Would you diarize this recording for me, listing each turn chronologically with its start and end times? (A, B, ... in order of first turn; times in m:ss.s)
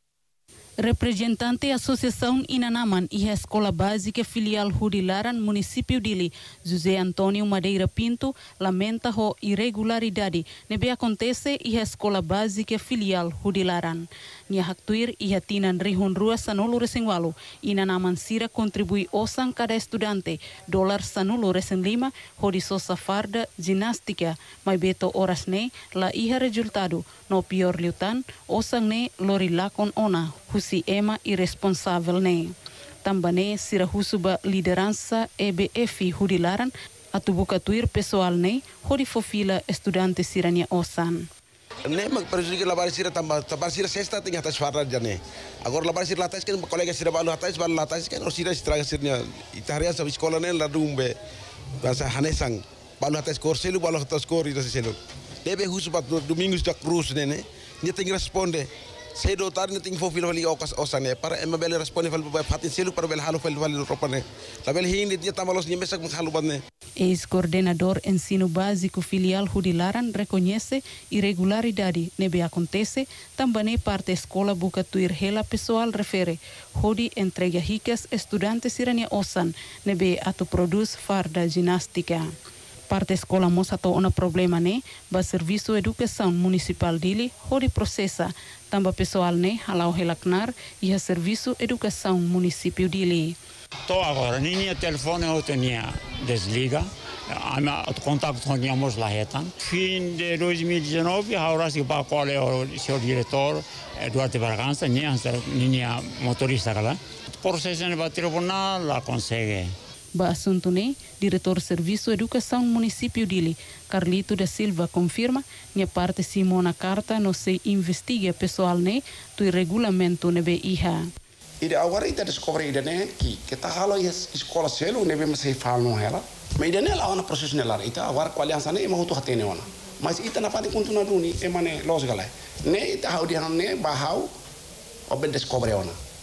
0:00.8-0:41.3 A
0:41.9-0:51.2 B
0:51.8-1:06.6 B
1:07.0-1:22.3 A
1:22.9-1:33.4 A
1:33.9-1:49.7 C
1:50.1-2:01.1 A
2:01.6-2:14.3 D
2:15.1-2:16.0 D